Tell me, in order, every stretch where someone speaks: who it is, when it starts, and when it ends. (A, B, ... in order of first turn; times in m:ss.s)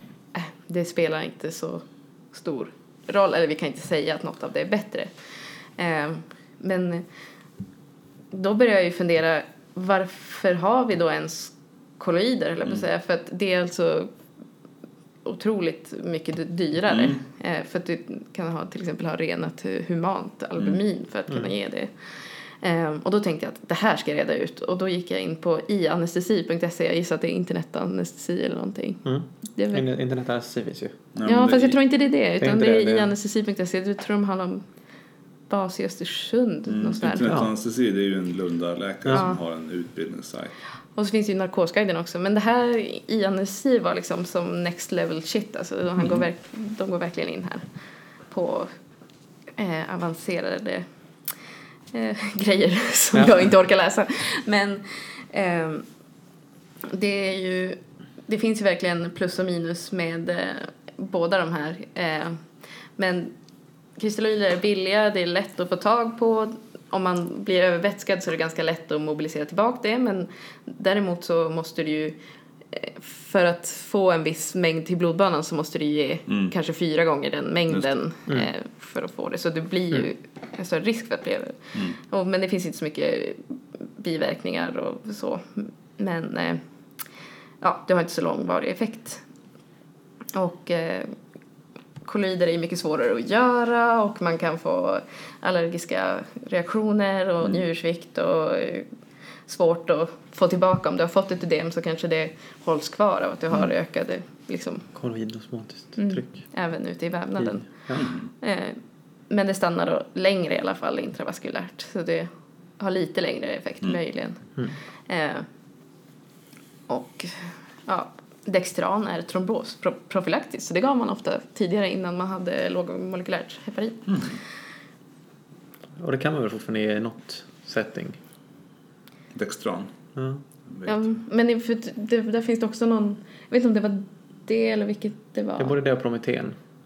0:00.3-0:05.1 A
0:05.8-0:07.0 A
0:08.3-0:14.1 A
0:15.2-0:21.9 A
0:16.9-0:17.2 B
0:22.6-0:29.8 A
0:29.0-0:31.0 C
0:31.2-0:31.8 B
0:31.2-0:34.6 A
0:32.4-0:33.1 C
0:35.5-0:37.4 A
0:36.7-0:40.5 B
0:39.1-0:39.4 A
0:41.0-0:47.6 A
0:48.3-0:48.7 A
0:49.6-0:50.9 A
0:51.9-0:55.9 A
0:56.9-1:02.4 A
1:03.0-1:03.3 A
1:04.0-1:12.2 A
1:12.7-1:23.4 A
1:16.3-1:16.5 B
1:24.0-1:26.6 A
1:27.6-1:29.2 A
1:30.3-1:31.1 A
1:32.0-1:38.9 A
1:39.5-1:44.9 A
1:45.0-1:46.4 C
1:46.0-1:47.7 A
1:47.4-1:48.0 C
1:48.0-1:48.3 B
1:48.4-1:48.8 A
1:49.3-1:54.4 A
1:55.1-1:55.5 A
1:56.9-2:04.3 A
2:06.0-2:08.2 C
2:09.3-2:09.9 B
2:10.2-2:10.4 C
2:10.7-2:11.0 B
2:10.9-2:15.8 A
2:15.6-2:16.6 C